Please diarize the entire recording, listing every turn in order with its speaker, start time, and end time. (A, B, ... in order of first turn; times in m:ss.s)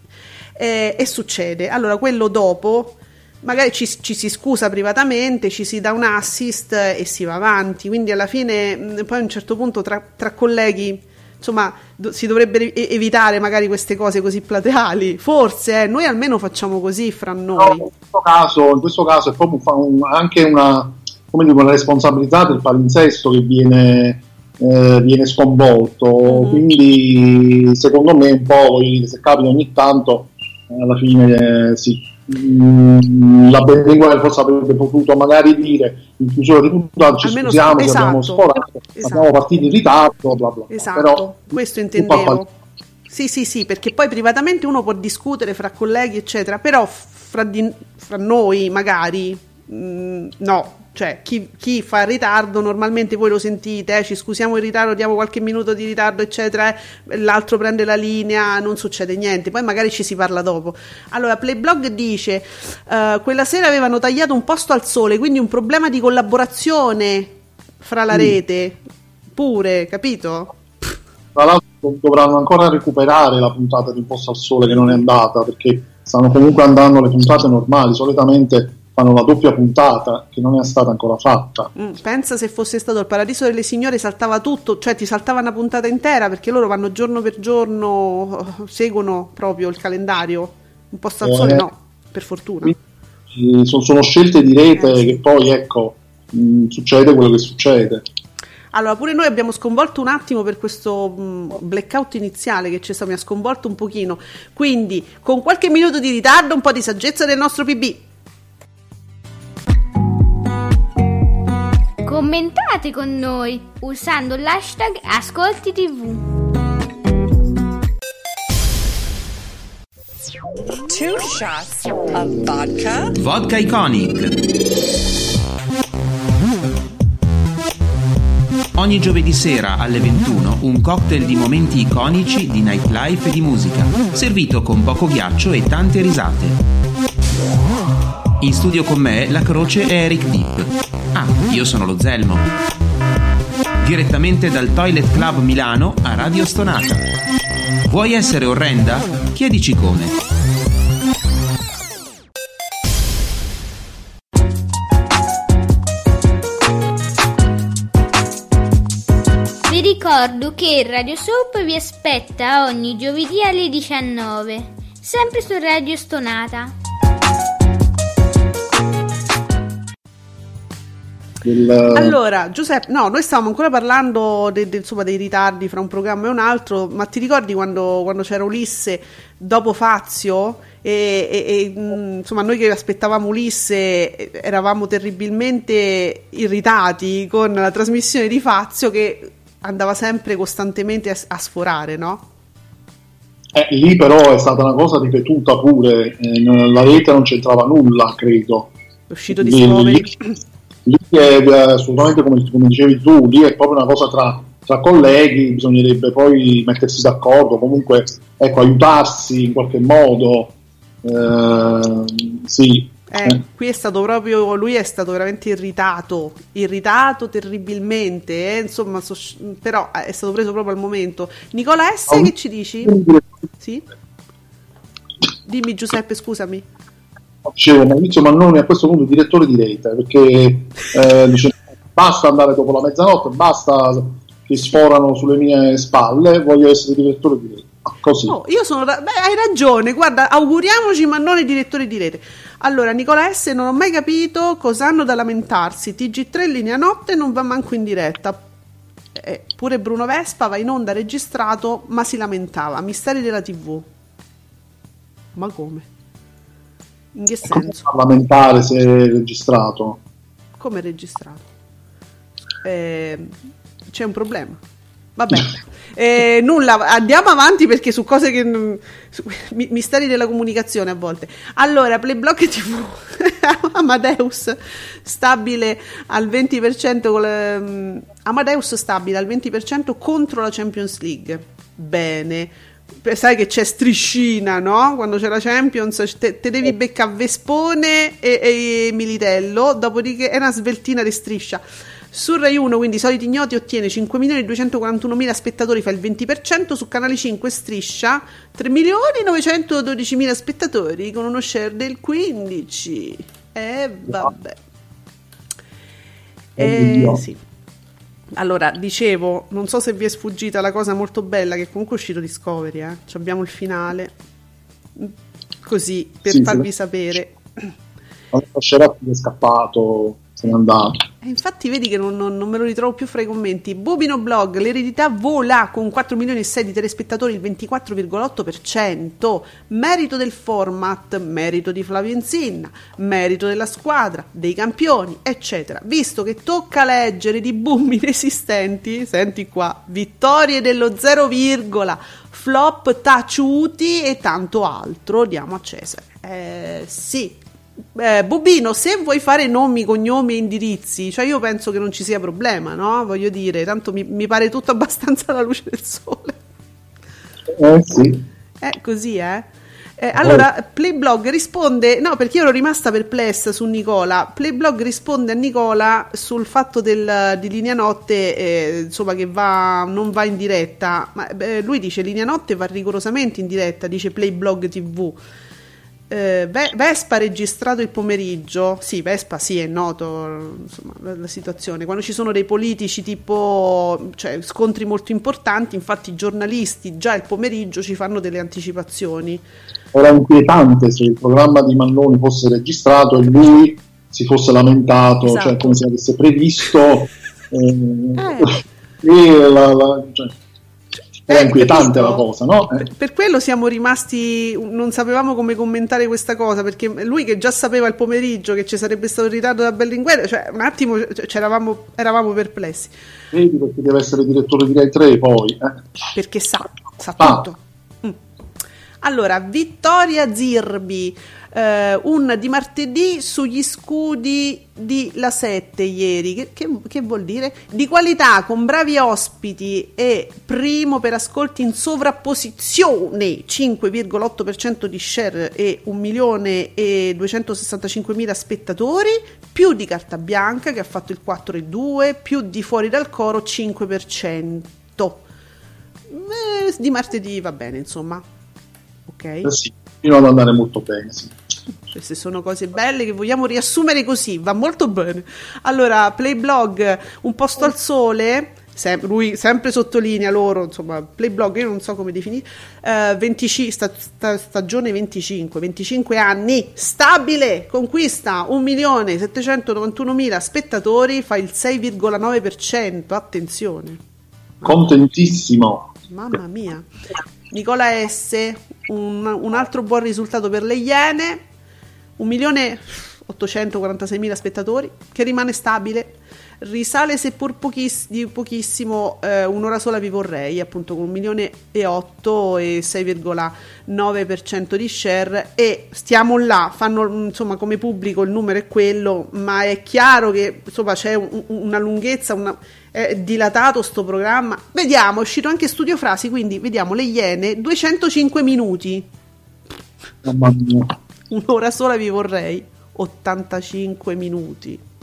0:00.6-0:17.9 A
0:17.6-0:42.4 B
0:26.3-0:26.6 A
0:37.2-0:39.3 A
0:40.7-0:42.5 A
0:43.1-1:08.8 A
1:09.3-1:10.6 A
1:11.4-1:21.7 B
1:14.7-1:15.0 A
1:21.8-1:32.8 A
1:31.2-1:31.7 B
1:33.3-1:38.1 B
1:34.8-1:35.2 A
1:38.7-1:48.0 A
1:52.0-1:56.2 C
2:00.7-2:03.1 D
2:03.2-2:04.4 E
2:08.8-2:16.6 E
2:18.4-2:22.5 E
2:23.8-2:27.1 E
2:27.9-2:30.2 E
2:39.7-2:46.7 C
2:51.4-2:52.2 B
2:51.9-3:12.3 A
3:13.5-3:18.7 B
3:19.1-3:20.3 A
3:19.3-3:20.1 B
3:20.8-3:33.4 B
3:33.1-3:43.0 A
3:42.1-3:43.5 B
3:43.6-3:43.8 A
3:45.5-3:46.7 A
3:47.4-3:58.4 B
3:58.3-4:08.4 A
4:09.2-4:13.9 A
4:15.4-4:15.9 A
4:17.2-4:17.8 A
4:17.4-4:20.0 B
4:20.6-4:21.5 A
4:22.6-4:23.4 A
4:23.9-4:24.6 A
4:25.2-5:04.6 A
5:06.6-5:07.4 A
5:06.6-5:07.2 B
5:08.4-5:14.1 A
5:15.6-5:17.7 A
5:16.3-5:16.7 B
5:18.3-5:21.0 B
5:21.2-5:47.4 A
5:48.0-5:56.4 A
5:57.5-5:58.2 B
5:58.6-5:59.5 A
6:00.0-6:15.2 A
6:00.2-6:00.4 B
6:16.1-6:29.4 A
6:29.9-6:40.4 B
6:35.2-6:35.7 A
6:38.2-6:38.6 A
6:41.3-6:42.9 B
6:41.3-6:42.2 A
6:42.8-6:52.9 A
6:53.3-6:55.8 B
6:56.2-6:58.2 A
6:59.0-7:25.2 A
7:26.1-7:28.2 A
7:29.1-7:29.5 A
7:29.4-7:31.4 B
7:31.9-7:54.0 A
7:54.6-7:55.9 B
7:56.1-7:56.9 A
7:57.5-8:01.4 A
8:02.2-8:29.1 A
8:30.2-8:31.0 B
8:31.3-8:34.8 A